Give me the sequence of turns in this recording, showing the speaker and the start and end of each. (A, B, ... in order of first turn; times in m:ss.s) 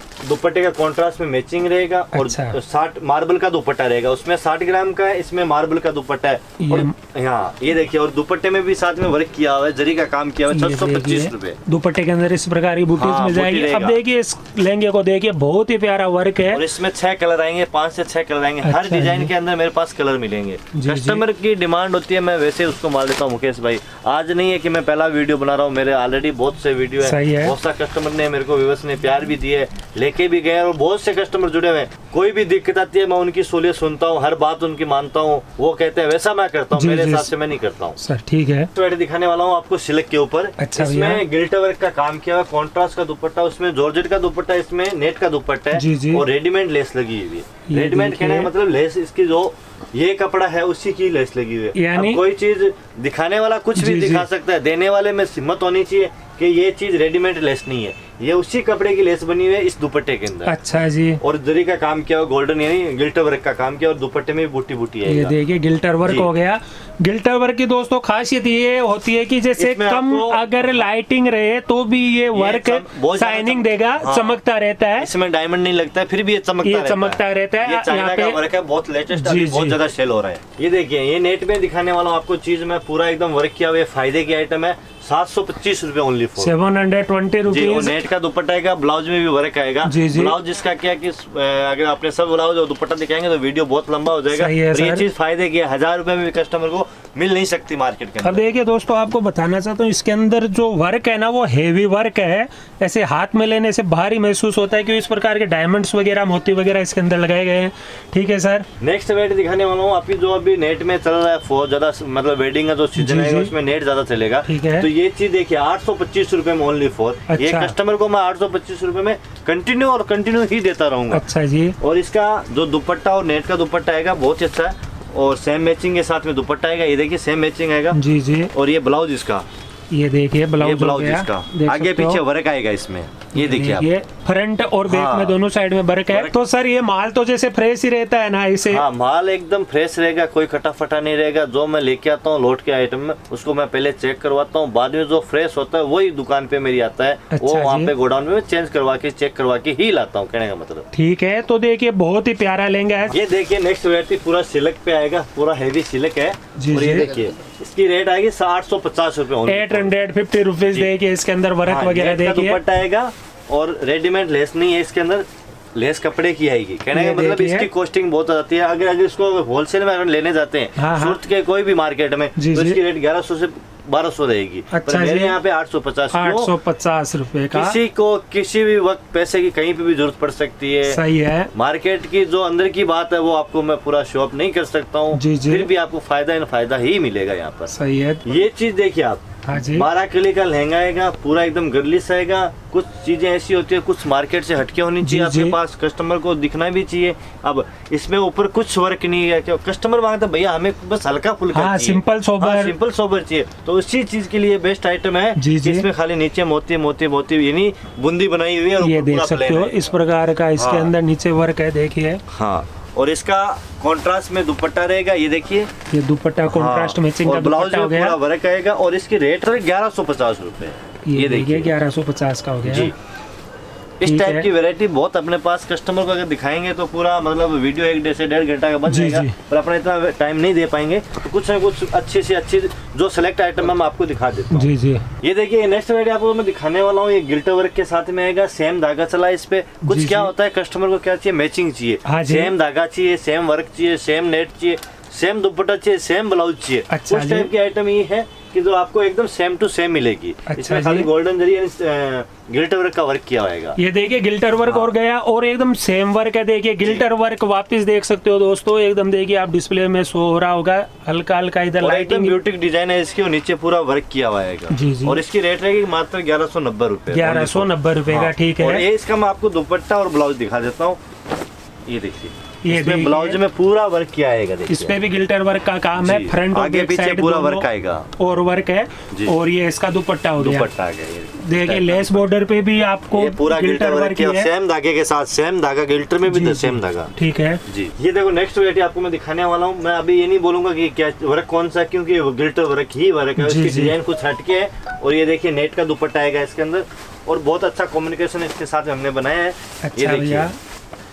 0:00.2-0:11.6 A
0:02.1-0:02.6 B
0:06.6-0:06.9 B
0:10.5-0:16.6 B
0:13.0-0:14.0 A
0:16.5-0:38.0 A
0:18.6-0:19.3 B
0:20.7-0:21.2 B
0:27.0-0:27.5 B
0:36.7-0:37.3 B
0:38.0-0:38.7 B
0:38.7-1:00.6 A
0:40.6-0:41.2 B
0:45.7-0:46.2 B
0:47.7-0:48.5 B
0:51.7-0:52.2 B
0:53.8-0:54.3 B
1:00.4-1:01.2 B
1:01.2-1:05.3 A
1:05.0-1:15.1 B
1:09.6-1:10.4 A
1:12.3-1:14.4 A
1:15.0-1:26.5 A
1:16.6-1:18.4 B
1:19.1-1:19.8 B
1:26.4-1:28.0 B
1:27.5-1:38.4 A
1:29.8-1:30.4 B
1:34.3-1:35.0 B
1:38.2-1:48.6 B
1:48.8-2:01.2 A
1:53.0-1:53.5 B
1:54.4-1:54.9 B
1:57.3-1:57.7 B
2:01.1-2:01.8 B
2:01.8-2:08.0 A
2:07.9-2:08.5 B
2:08.5-2:09.5 A
2:09.9-2:12.2 B
2:10.6-2:13.9 A
2:13.3-2:18.8 B
2:14.9-2:15.4 A
2:16.1-2:16.3 A
2:18.7-2:30.9 A
2:27.3-2:27.9 B
2:30.9-2:33.2 B
2:33.1-2:40.0 A
2:36.6-2:37.1 B
2:39.4-2:42.6 B
2:41.6-2:56.5 A
2:46.9-2:47.7 B
2:50.8-2:51.2 B
2:52.4-2:52.8 B
2:54.7-2:55.4 B
2:56.1-2:57.8 B
2:57.5-3:01.0 A
3:00.8-3:01.5 B
3:01.5-3:07.7 A
3:05.1-3:05.7 B
3:07.7-3:08.3 B
3:08.2-3:29.8 A
3:09.4-3:09.9 B
3:15.0-3:15.6 B
3:21.5-3:22.7 B
3:25.4-3:25.9 B
3:28.8-3:32.2 B
3:30.6-3:30.9 A
3:32.3-3:35.7 A
3:35.9-3:38.2 B
3:36.5-3:41.7 A
3:41.0-3:42.9 B
3:42.6-3:42.9 A
3:44.0-3:54.7 A
3:44.0-3:44.5 B
3:48.9-3:49.3 B
3:54.5-3:55.0 B
3:55.2-4:13.8 A
3:59.8-4:00.3 B
4:02.0-4:02.5 B
4:06.9-4:07.5 B
4:10.4-4:11.1 B
4:13.8-4:22.4 B
4:14.6-4:14.9 A
4:21.8-4:31.0 A
4:24.7-4:25.2 B
4:27.1-4:28.8 B
4:31.9-4:35.0 A
4:32.6-4:33.4 B
4:34.7-4:37.6 B
4:36.0-4:38.1 A
4:38.2-4:40.7 B
4:40.4-4:42.3 A
4:41.4-4:44.5 B
4:43.1-4:47.1 A
4:46.2-4:47.6 B
4:47.7-5:00.5 A
4:53.4-4:54.0 B
4:59.8-5:00.6 B